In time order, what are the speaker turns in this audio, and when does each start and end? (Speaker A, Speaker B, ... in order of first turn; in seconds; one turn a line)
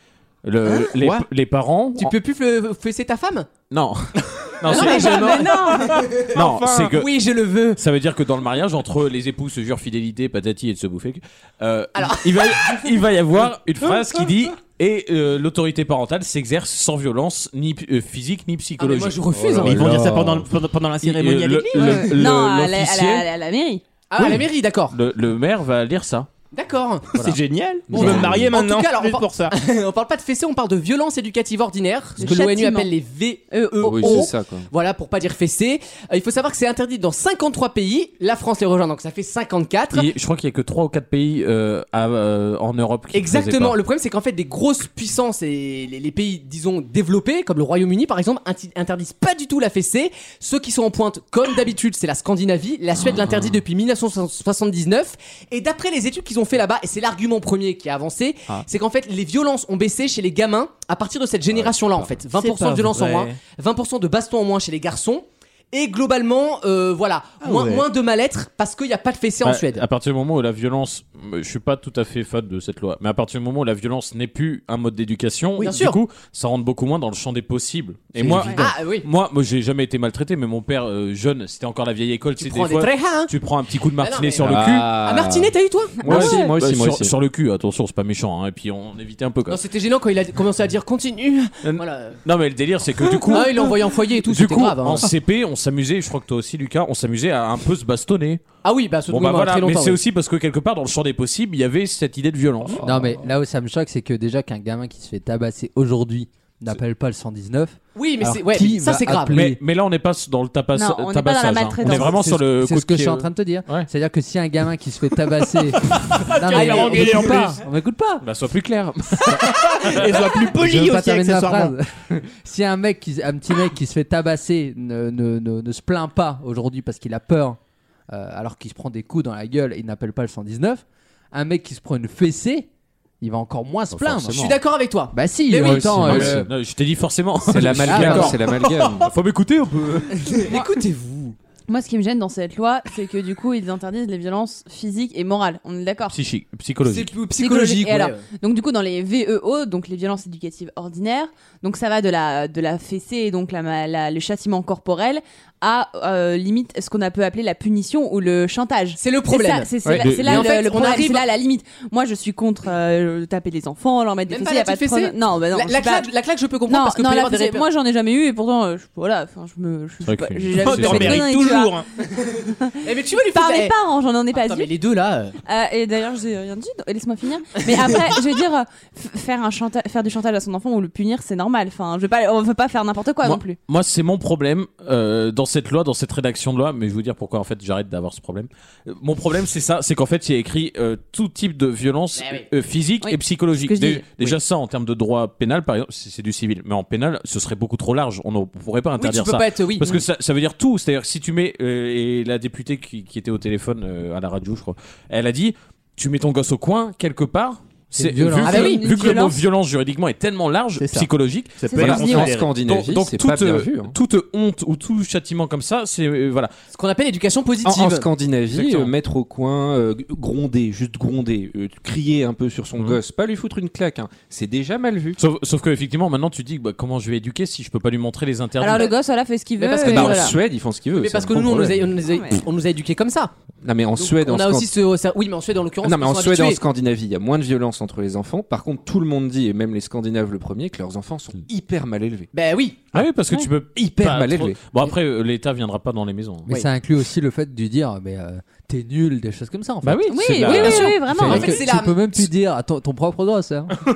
Speaker A: 0.4-2.1
Speaker B: 1.9-3.5
Speaker A: 3.7-5.4
Speaker C: 4.6-6.9
Speaker B: 4.7-7.8
Speaker D: 4.7-6.1
Speaker A: 6.2-7.1
Speaker A: 7.8-20.4
Speaker B: 11.9-12.9
Speaker B: 18.8-19.9
Speaker C: 19.6-22.1
Speaker A: 21.0-23.3
Speaker D: 21.8-23.8
Speaker B: 24.1-24.9
Speaker A: 24.2-26.3
Speaker B: 26.5-27.1
Speaker C: 27.2-29.5
Speaker A: 27.9-28.5
Speaker B: 27.9-40.1
Speaker E: 27.9-28.4
Speaker D: 32.2-32.9
Speaker D: 33.5-34.3
Speaker E: 33.8-34.7
Speaker A: 39.9-43.8
Speaker B: 43.1-69.8
Speaker E: 61.6-62.0
Speaker C: 62.4-63.3
Speaker C: 67.4-67.8
Speaker A: 69.4-84.9
Speaker B: 75.6-76.0
Speaker E: 78.2-78.5
Speaker B: 78.5-79.0
Speaker B: 82.4-83.3
Speaker B: 84.0-86.2
Speaker E: 84.4-87.1
Speaker D: 86.0-86.5
Speaker A: 86.0-89.6
Speaker B: 89.5-92.2
Speaker A: 91.6-98.4
Speaker B: 93.2-95.1
Speaker B: 98.6-100.0
Speaker A: 99.1-102.8
Speaker F: 102.8-109.6
Speaker B: 107.9-109.4
Speaker A: 109.3-113.9
Speaker D: 110.7-112.2
Speaker F: 111.8-118.2
Speaker C: 116.3-117.6
Speaker B: 116.5-117.3
Speaker A: 118.2-119.4
Speaker C: 119.6-121.7
Speaker F: 120.5-127.6
Speaker F: 128.1-132.7
Speaker F: 133.2-134.4
Speaker A: 133.9-134.6
Speaker B: 134.3-136.3
Speaker F: 135.1-136.5
Speaker A: 135.6-138.4
Speaker E: 136.0-136.4
Speaker E: 137.4-139.1
Speaker F: 137.9-138.3
Speaker B: 138.1-138.4
Speaker A: 139.6-140.0
Speaker B: 140.2-141.3
Speaker D: 141.7-146.2
Speaker A: 146.1-147.1
Speaker B: 146.8-148.2
Speaker D: 147.3-166.1
Speaker B: 159.0-159.7
Speaker A: 159.9-160.5
Speaker B: 160.2-161.2
Speaker B: 164.3-167.7
Speaker D: 166.7-171.8
Speaker A: 170.0-171.3
Speaker C: 170.6-171.8
Speaker B: 172.3-173.8
Speaker D: 173.2-174.7
Speaker B: 174.3-175.3
Speaker D: 175.4-183.6
Speaker A: 183.2-216.5
Speaker B: 192.2-192.4
Speaker D: 193.0-194.3
Speaker B: 199.0-200.0
Speaker F: 207.9-208.7
Speaker B: 208.4-209.2
Speaker D: 208.6-209.3
Speaker C: 211.6-212.5
Speaker D: 211.7-212.2
Speaker E: 211.7-213.9
Speaker B: 216.7-218.1
Speaker E: 217.6-225.2
Speaker A: 218.5-218.9
Speaker A: 225.2-228.9
Speaker D: 228.6-230.3
Speaker B: 229.6-230.3
Speaker E: 229.8-232.0
Speaker B: 230.9-233.3
Speaker D: 232.1-232.4
Speaker E: 233.6-234.7
Speaker B: 233.9-236.6
Speaker E: 235.8-242.3
Speaker B: 242.3-242.8
Speaker A: 242.9-246.5
Speaker E: 243.7-244.6
Speaker F: 246.5-253.8
Speaker A: 249.8-251.3
Speaker D: 250.1-251.6
Speaker B: 250.4-252.2